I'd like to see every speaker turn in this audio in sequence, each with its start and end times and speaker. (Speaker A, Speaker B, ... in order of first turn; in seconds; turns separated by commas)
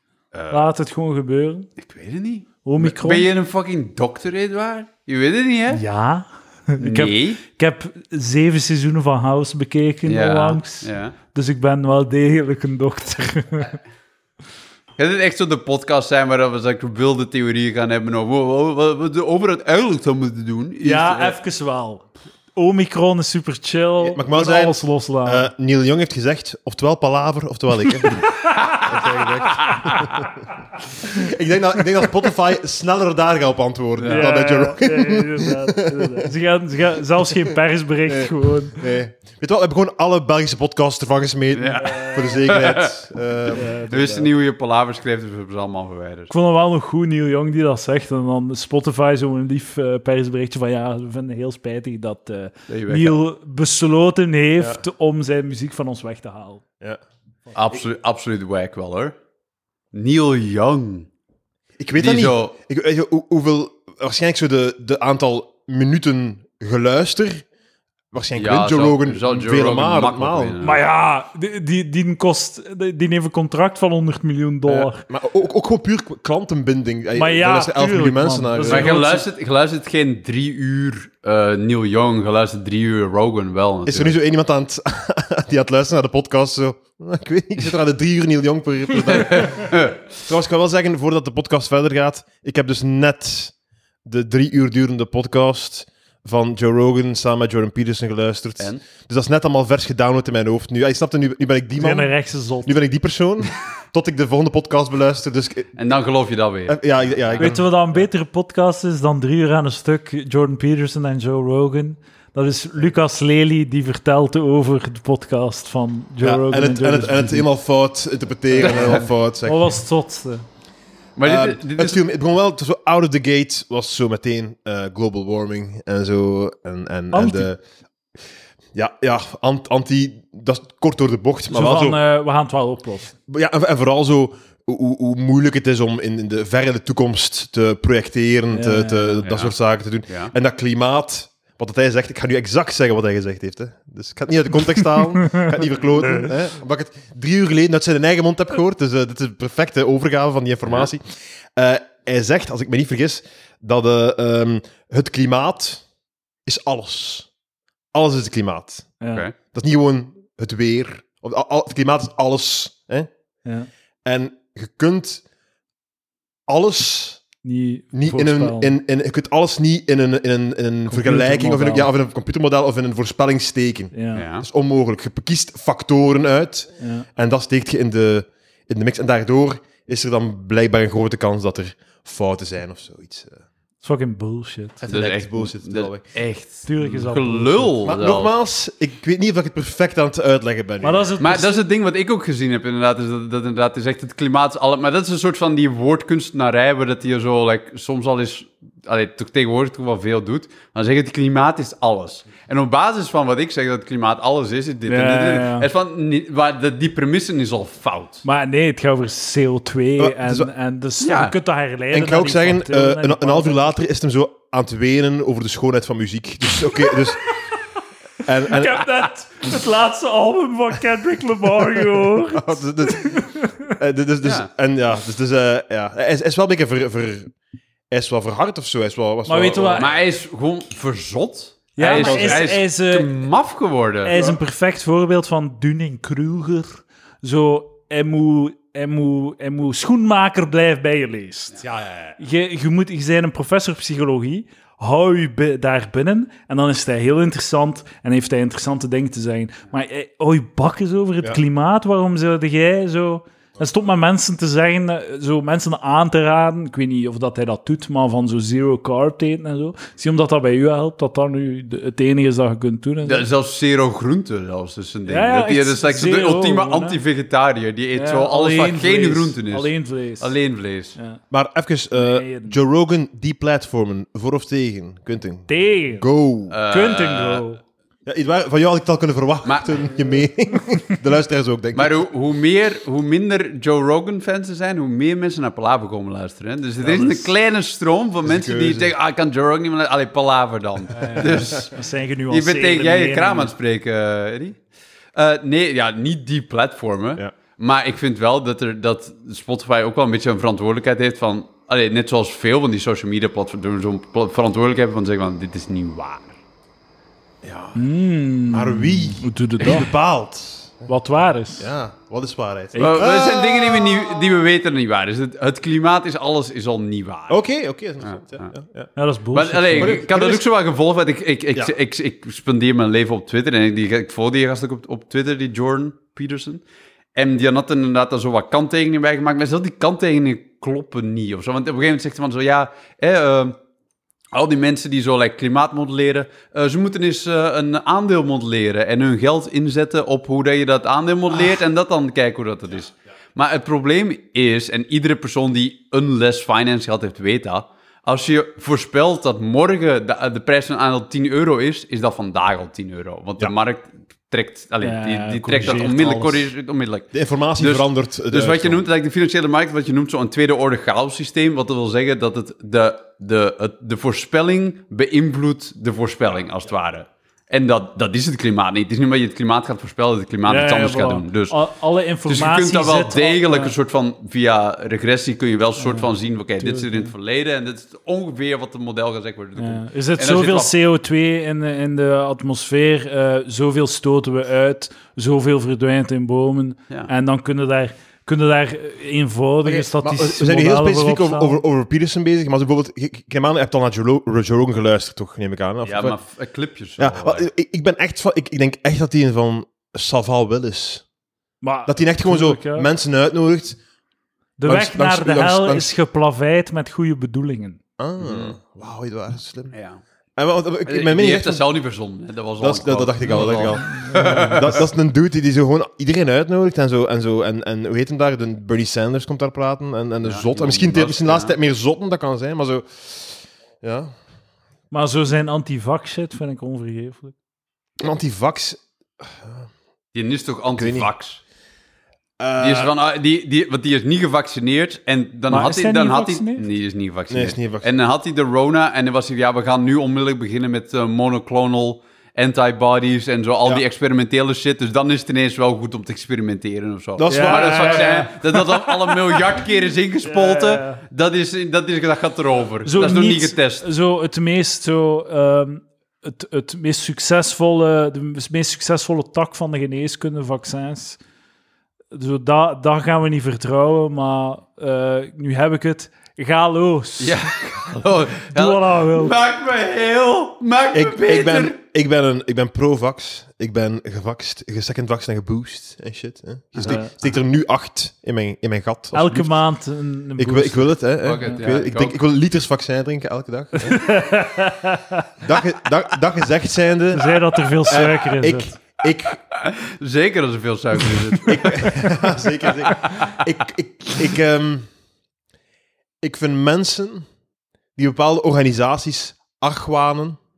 Speaker A: 0.3-0.6, Speaker B: 0.5-1.7, Speaker C: 1.8-5.8, Speaker B: 2.6-3.3, Speaker B: 5.7-13.7, Speaker C: 6.8-7.4, Speaker C: 10.1-11.1, Speaker C: 15.0-21.4, Speaker B: 20.8-25.5, Speaker A: 24.0-30.4, Speaker C: 28.4-30.2, Speaker A: 31.0-36.3, Speaker C: 34.0-34.3, Speaker B: 34.0-38.8, Speaker A: 38.1-43.7, Speaker C: 41.5-46.3, Speaker B: 41.8-42.3, Speaker B: 43.5-44.3, Speaker B: 46.3-56.6, Speaker C: 52.7-53.2, Speaker C: 57.5-59.1, Speaker C: 59.9-61.1, Speaker A: 61.8-67.5, Speaker C: 62.0-62.5, Speaker A: 68.1-70.5, Speaker C: 68.4-70.8, Speaker B: 70.6-75.0, Speaker A: 75.1-79.1, Speaker B: 77.1-79.2, Speaker C: 78.7-84.1, Speaker A: 83.9-93.5, Speaker C: 89.2-90.0, Speaker A: 94.0-105.8, Speaker B: 101.8-102.7, Speaker C: 105.8-107.5, Speaker A: 106.7-107.6, Speaker B: 107.4-117.5, Speaker A: 116.2-119.7, Speaker B: 118.6-120.4, Speaker C: 118.7-119.0, Speaker C: 121.2-122.0, Speaker A: 121.2-127.6, Speaker B: 127.1-127.5, Speaker A: 128.8-132.0, Speaker B: 131.5-133.2, Speaker A: 133.3-155.8, Speaker B: 138.5-139.3, Speaker C: 139.2-139.5, Speaker C: 140.1-140.3, Speaker B: 145.2-145.5, Speaker A: 156.4-157.3, Speaker A: 157.9-158.9, Speaker B: 159.0-159.2, Speaker A: 159.5-163.1, Speaker A: 164.0-165.2, Speaker A: 166.5-167.2, Speaker B: 167.4-168.8, Speaker A: 167.9-183.4, Speaker B: 170.9-171.9, Speaker B: 173.9-174.2, Speaker C: 174.1-174.4, Speaker B: 176.8-177.1, Speaker B: 183.8-184.8, Speaker A: 184.8-186.0, Speaker C: 184.8-188.3, Speaker B: 186.7-187.7, Speaker A: 187.8-191.1, Speaker B: 190.8-191.6, Speaker C: 191.2-208.2, Speaker B: 204.9-205.7, Speaker B: 208.2-213.8, Speaker A: 210.0-210.5, Speaker C: 211.0-211.3, Speaker A: 211.9-217.2, Speaker B: 216.8-217.3, Speaker A: 218.2-218.8, Speaker B: 218.4-223.7, Speaker A: 221.8-227.3, Speaker C: 224.2-224.5, Speaker A: 227.9-229.9, Speaker B: 229.3-229.9, Speaker C: 229.8-234.2, Speaker B: 231.8-233.1, Speaker A: 231.8-232.6, Speaker B: 234.0-241.6, Speaker A: 241.7-242.1, Speaker B: 242.2-263.2, Speaker C: 263.1-270.9, Speaker B: 265.1-267.0, Speaker B: 267.9-270.3, Speaker A: 271.3-276.6, Speaker B: 271.9-272.6, Speaker B: 275.5-276.1, Speaker C: 276.5-277.4, Speaker B: 276.7-277.6, Speaker A: 278.1-282.0, Speaker C: 279.4-279.8, Speaker C: 281.7-291.7, Speaker A: 286.8-287.3, Speaker A: 288.2-288.9, Speaker B: 290.9-293.5, Speaker C: 292.3-294.6, Speaker C: 295.1-306.3, Speaker A: 307.4-307.8, Speaker B: 307.8-309.9, Speaker A: 308.5-310.9, Speaker B: 310.9-311.7, Speaker A: 311.6-314.2, Speaker B: 312.7-313.1, Speaker C: 312.8-317.4, Speaker A: 317.3-318.9, Speaker C: 318.0-318.5, Speaker B: 318.9-320.0, Speaker C: 319.3-326.6, Speaker A: 319.8-320.4, Speaker C: 327.1-333.6, Speaker C: 334.3-371.6, Speaker B: 354.8-356.5, Speaker A: 357.1-358.9, Speaker B: 370.5-373.7, Speaker C: 372.3-380.7, Speaker B: 375.8-377.1, Speaker B: 379.6-391.6, Speaker A: 389.6-396.1, Speaker C: 395.8-397.5, Speaker A: 397.0-401.0, Speaker B: 401.6-402.9, Speaker A: 401.9-403.8, Speaker B: 404.6-407.8, Speaker A: 404.6-405.9, Speaker A: 408.0-409.7, Speaker C: 408.2-408.6, Speaker C: 409.7-410.0, Speaker A: 410.4-411.6, Speaker C: 410.9-414.8, Speaker A: 412.6-424.1, Speaker B: 413.2-414.7, Speaker C: 420.2-421.6, Speaker B: 424.9-427.3, Speaker A: 428.0-429.7, Speaker C: 430.1-431.4, Speaker A: 430.8-431.1, Speaker A: 432.4-432.9, Speaker C: 432.6-453.8, Speaker B: 435.5-436.6, Speaker A: 437.3-437.9, Speaker A: 447.2-448.3, Speaker B: 447.3-449.3, Speaker B: 450.2-451.0, Speaker B: 452.8-461.2, Speaker B: 462.1-467.4, Speaker C: 467.2-471.7, Speaker B: 468.5-469.3, Speaker A: 470.9-479.6, Speaker B: 476.8-477.1, Speaker B: 479.1-481.6, Speaker A: 480.4-484.4, Speaker C: 481.2-482.2, Speaker B: 483.8-485.2, Speaker A: 485.4-489.4, Speaker B: 487.1-488.7, Speaker C: 489.5-491.9, Speaker A: 491.5-494.9, Speaker C: 492.8-493.4, Speaker A: 496.2-497.2, Speaker A: 498.0-500.4